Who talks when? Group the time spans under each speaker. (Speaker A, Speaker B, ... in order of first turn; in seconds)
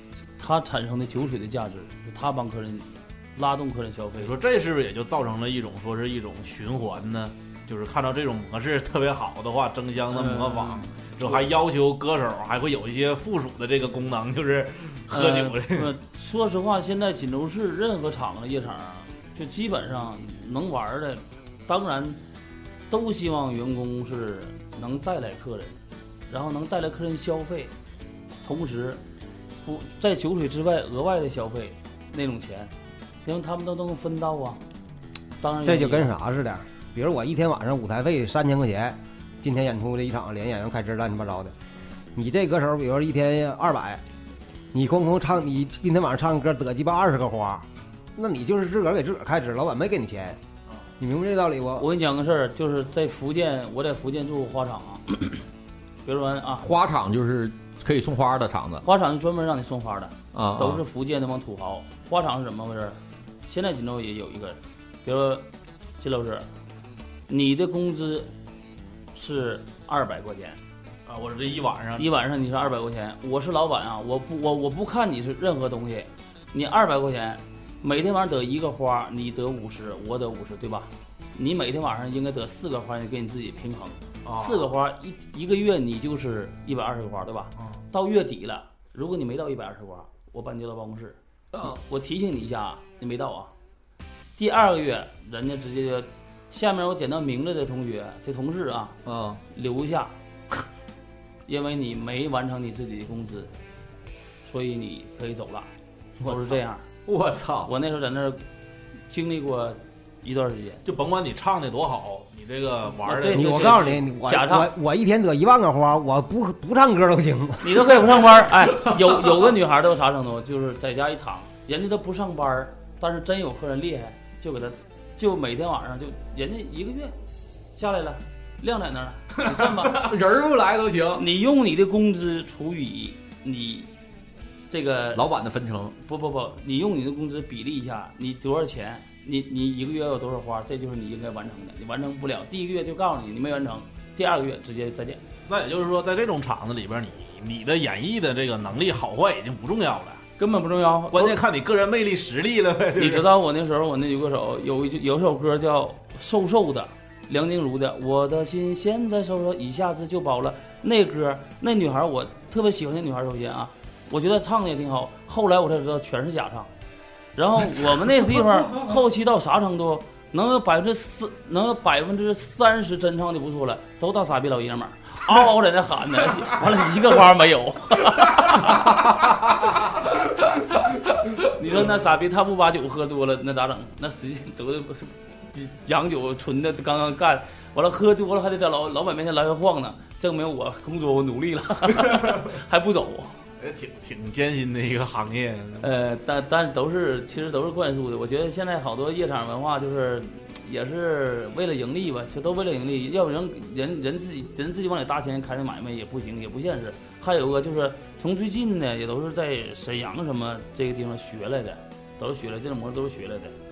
Speaker A: 0.4-4.3, 10.1-11.4, 15.1-22.2, 22.9-27.7, 28.4-29.0, 29.6-32.7, 33.2-34.6, 35.4-36.1, 51.8-55.4, 56.0-56.7, 58.8-65.5, 66.0-66.5, 67.3-68.3, 69.1-70.6, 72.0-93.5, 94.4-99.0, 99.5-100.1, 101.5-103.5, 104.4-105.7, 106.2-106.8, 107.6-108.4, 109.1-110.8, 113.0-114.7, 117.6-127.1, 127.7-130.1, 131.2-133.9, 134.7-135.2, 136.0-145.2, 150.4-151.4, 152.9-166.7, 167.3-179.0, 180.2-193.4, 195.8-213.5
Speaker B: 4.2-15.9, 71.0-72.1, 84.2-84.7, 110.8-113.9, 145.5-150.2, 151.1-153.3, 193.6-195.8
Speaker C: 35.6-41.5, 42.1-44.0, 44.7-50.4, 51.0-51.9, 113.3-117.9
Speaker D: 56.6-58.8, 60.3-60.8, 91.5-91.8, 99.0-99.4, 106.2-106.5, 107.0-107.7, 129.9-131.2, 135.1-135.9